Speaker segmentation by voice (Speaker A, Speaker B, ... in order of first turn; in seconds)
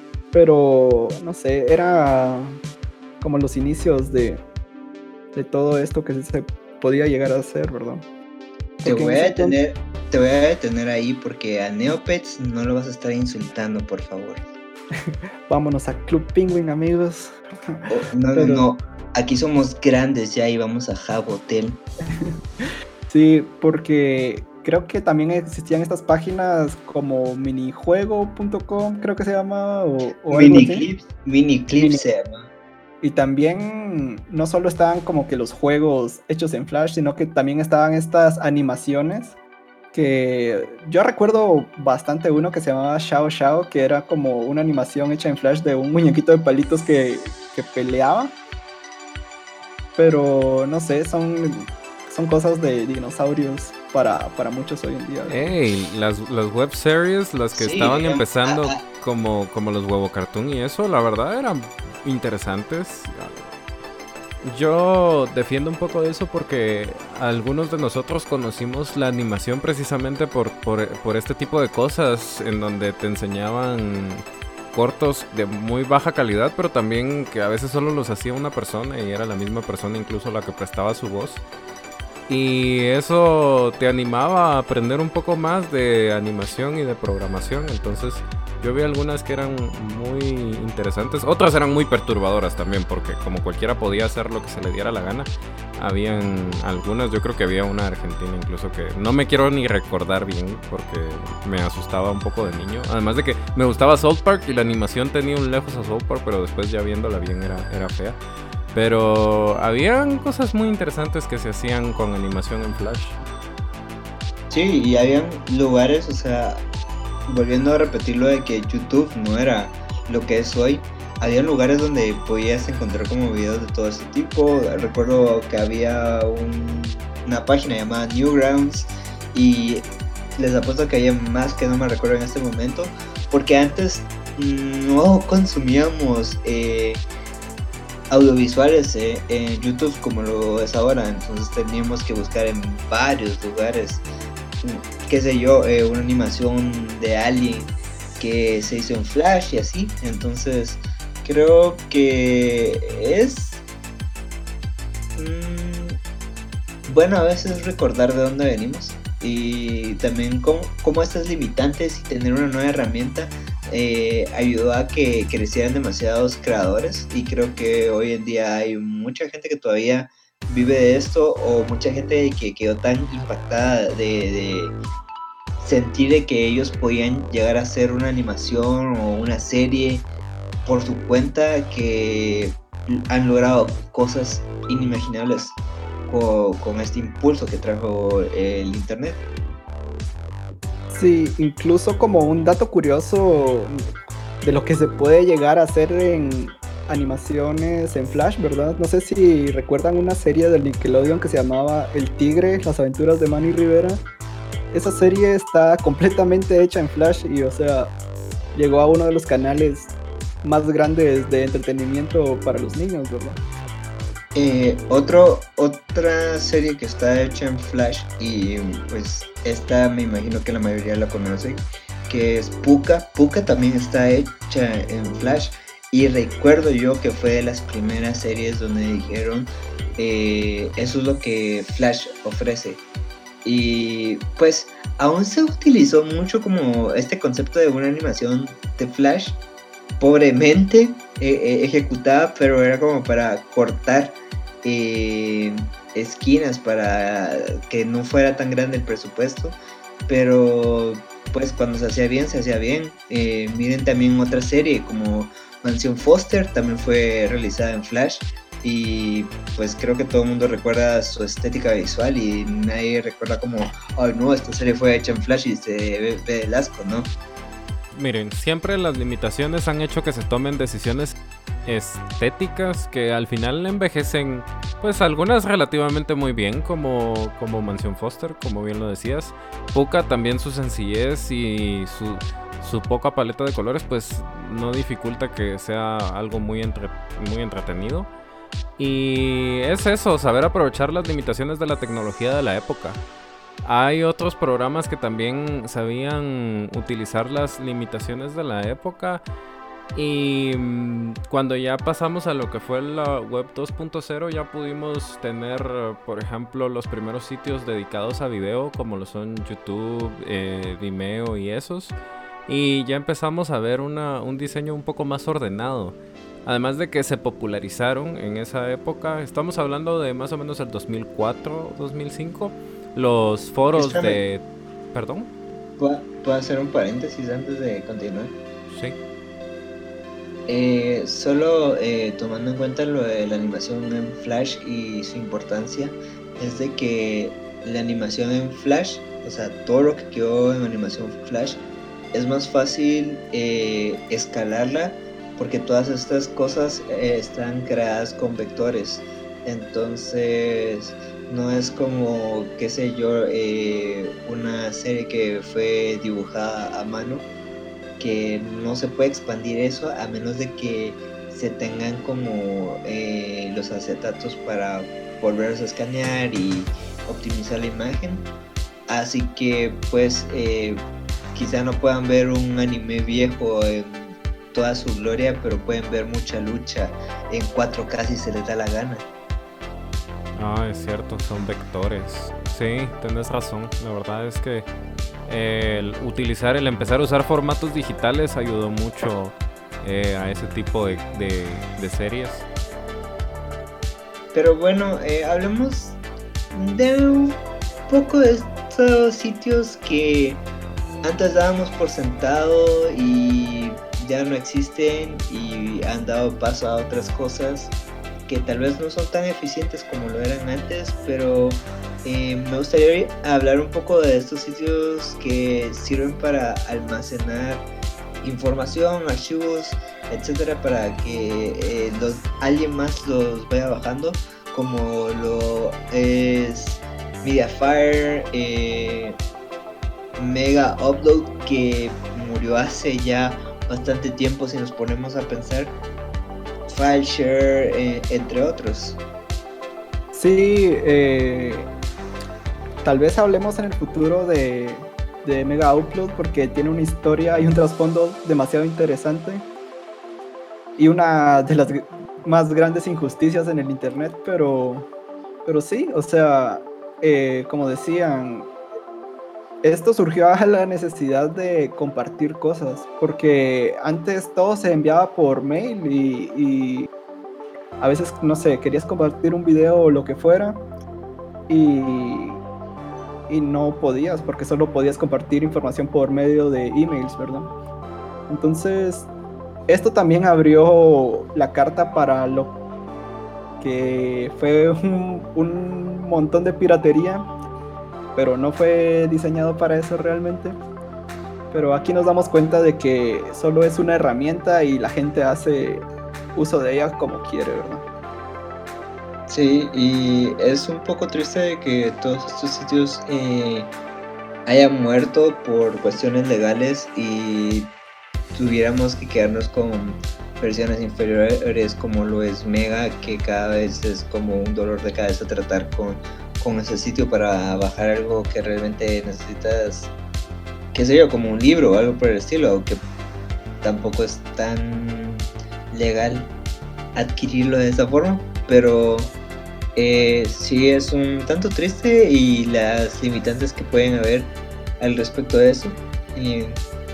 Speaker A: 0.3-2.6, 3.2-4.4, 5.3-8.1, 8.8-9.6, 15.1-18.7, 22.2-30.9, 31.8-32.0, 33.0-39.4, 39.9-48.4, 50.0-55.4, 190.9-193.8, 194.4-204.0, 204.7-207.9, 208.6-213.4, 440.1-441.7, 442.8-449.5, 450.8-454.9, 455.5-458.5, 459.6-466.9, 467.8-470.6, 471.5-472.4, 473.3-477.5, 478.3-479.1, 479.7-482.6, 483.6-487.3, 488.1-490.6, 491.5-497.9
Speaker B: 8.8-14.4, 17.9-21.8, 30.3-32.5, 57.5-58.8, 114.5-116.6, 117.3-137.1, 138.1-144.1, 144.6-153.6, 155.2-156.0, 156.9-174.8, 175.6-180.1, 180.7-189.2, 214.3-232.8, 233.4-239.4, 240.0-267.1, 323.8-324.2, 325.8-328.4, 330.5-357.3, 358.0-368.3, 368.9-379.1, 394.3-396.0, 396.5-400.5, 401.0-407.7, 408.3-417.7, 418.2-429.2, 430.2-435.8, 436.7-439.0, 499.3-503.7, 504.5-507.7, 508.3-519.9, 520.7-522.8, 523.6-526.3, 527.0-529.2, 529.8-536.6
Speaker C: 55.3-63.5, 64.4-81.5, 82.3-108.2, 108.7-113.2, 267.9-288.1, 288.8-293.0, 293.6-299.2, 299.9-312.0, 312.5-325.3, 328.7-329.0, 380.4-384.7, 385.3-392.5